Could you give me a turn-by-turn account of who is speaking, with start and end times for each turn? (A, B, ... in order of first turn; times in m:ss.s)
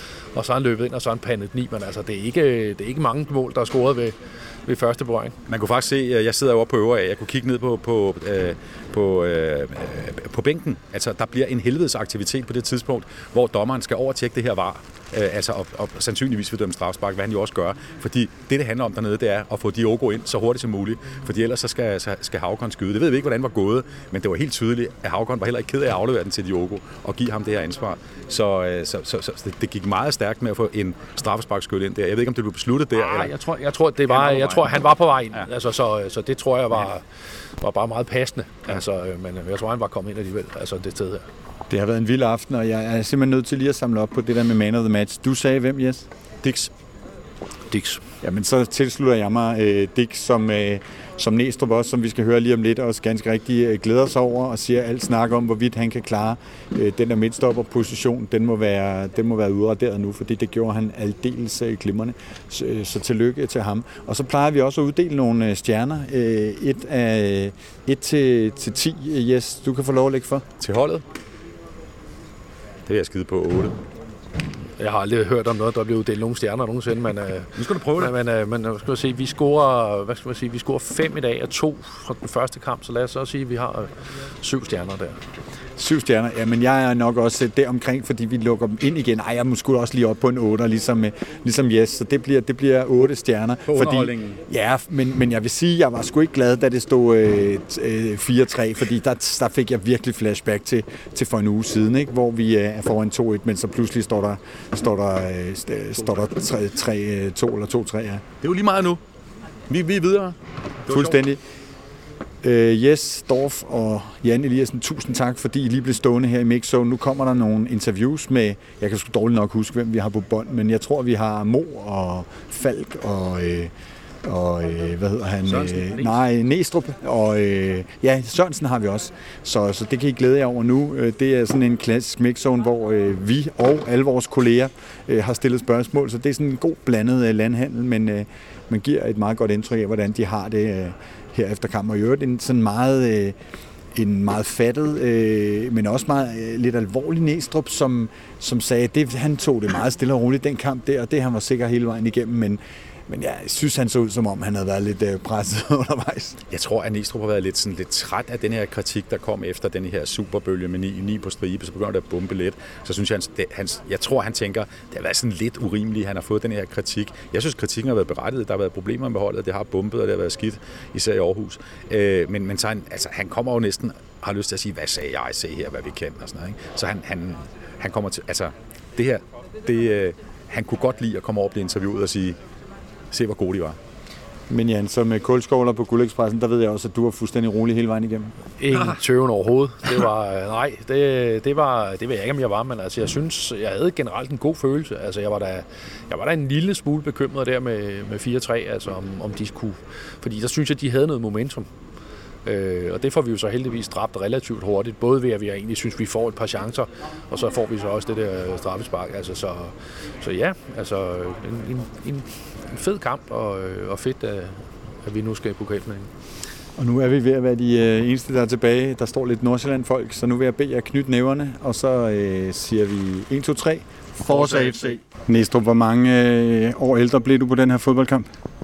0:00.3-0:05.4 A
0:05.5-0:33.3 B
0:32.9-0:37.0 A
0:34.1-0:34.6 B
0:37.6-0:41.2 A
0:41.7-0:46.0 C
0:46.4-0:46.7 B
0:47.7-0:48.0 A
0:48.2-1:10.4 C
1:10.6-1:11.0 B
1:12.9-1:13.8 B
1:14.8-1:25.2 A
1:17.6-1:18.1 B
1:25.8-1:48.2 C
1:33.7-1:34.4 B
1:33.8-1:34.0 A
1:48.4-1:49.0 B
1:49.7-1:51.2 B
1:50.9-1:51.4 C
1:52.4-2:03.7 C
2:04.2-2:23.4 C
2:23.9-2:36.4 C
2:36.5-3:02.4 B
3:03.1-3:03.8 B
3:04.5-3:08.3 C
3:08.6-3:21.7 A
3:22.4-3:36.1 A
3:36.8-3:48.3 C